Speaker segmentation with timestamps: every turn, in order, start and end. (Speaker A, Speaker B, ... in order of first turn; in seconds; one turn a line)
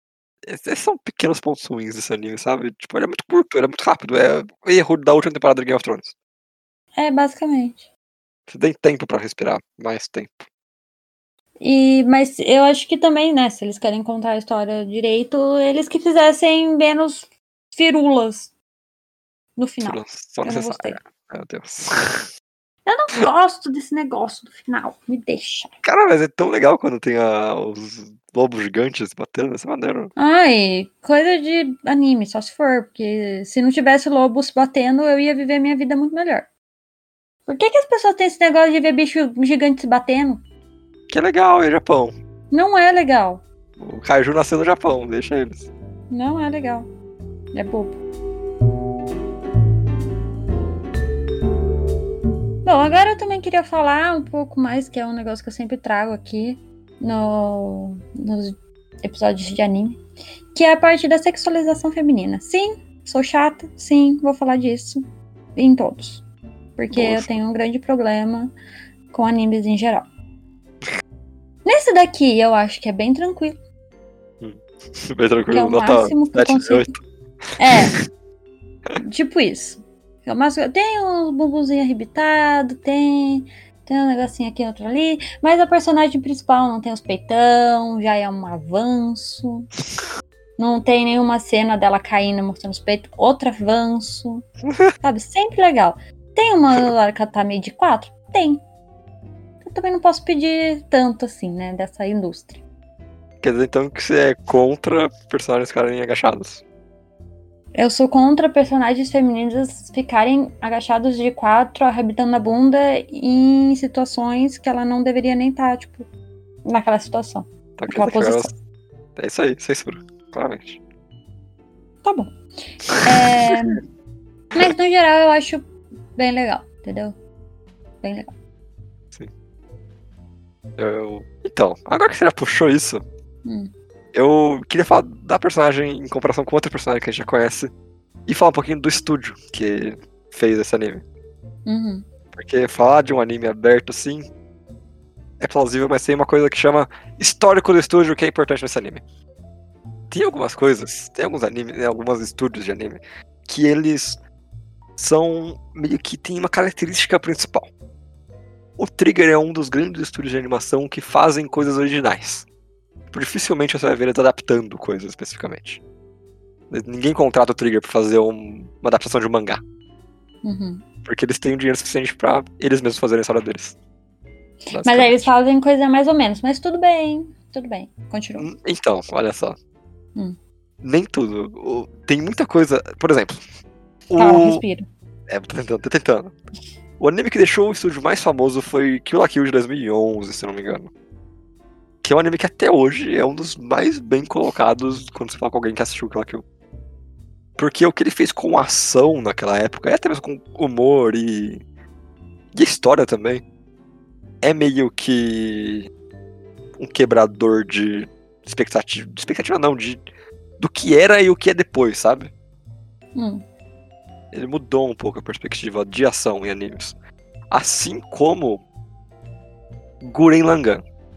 Speaker A: 0.5-6.2
Speaker B: 6.9-7.9
Speaker A: 8.5-10.5
Speaker B: 11.6-18.5
Speaker B: 19.6-21.0
Speaker A: 19.8-22.3
Speaker B: 22.9-25.7
Speaker A: 25.8-30.1
Speaker B: 30.1-36.5
Speaker B: 37.5-40.4
Speaker A: 41.1-42.1
Speaker B: 42.5-43.4
Speaker A: 43.8-45.7
Speaker B: 46.1-46.9
Speaker B: 47.5-48.0
Speaker B: 52.6-60.0
Speaker B: 60.5-65.0
Speaker B: 65.6-66.2
Speaker B: 66.8-68.5
Speaker A: 66.9-67.4
Speaker B: 69.1-70.1
Speaker B: 71.6-73.6
Speaker A: 74.4-77.0
Speaker B: 75.5-76.9
Speaker B: 77.6-78.0
Speaker A: 77.7-78.0
Speaker B: 79.0-89.7
Speaker B: 90.6-94.4
Speaker B: 95.0-98.6
Speaker B: 99.6-102.6
Speaker A: 103.4-106.6
Speaker B: 107.8-116.1
Speaker B: 116.6-118.6
Speaker A: 117.8-118.5
Speaker A: 119.2-120.8
Speaker B: 122.0-122.3
Speaker A: 122.9-123.6
Speaker B: 123.0-123.8
Speaker B: 124.5-127.2
Speaker B: 128.0-128.3
Speaker A: 130.8-133.0
Speaker B: 133.4-133.7
Speaker A: 134.1-137.7
Speaker A: 138.3-141.0
Speaker B: 141.7-142.1
Speaker A: 142.3-144.3
Speaker A: 145.4-149.0
Speaker A: 150.1-154.2
Speaker A: 155.0-157.7
Speaker A: 158.8-162.5
Speaker A: 163.1-165.8
Speaker A: 166.7-169.6
Speaker B: 170.4-170.8
Speaker A: 171.1-173.8
Speaker A: 174.7-175.3
Speaker B: 174.7-178.5
Speaker A: 178.4-179.6
Speaker A: 180.8-183.4
Speaker A: 184.1-184.6
Speaker B: 184.2-184.9
Speaker A: 185.3-186.3
Speaker A: 187.0-190.9
Speaker A: 192.0-196.4
Speaker A: 197.6-201.6
Speaker A: 202.5-203.4
Speaker A: 204.4-205.9
Speaker A: 206.8-210.0
Speaker A: 210.6-212.3
Speaker B: 213.1-213.4
Speaker A: 214.3-216.9
Speaker A: 217.5-218.6
Speaker A: 220.0-220.8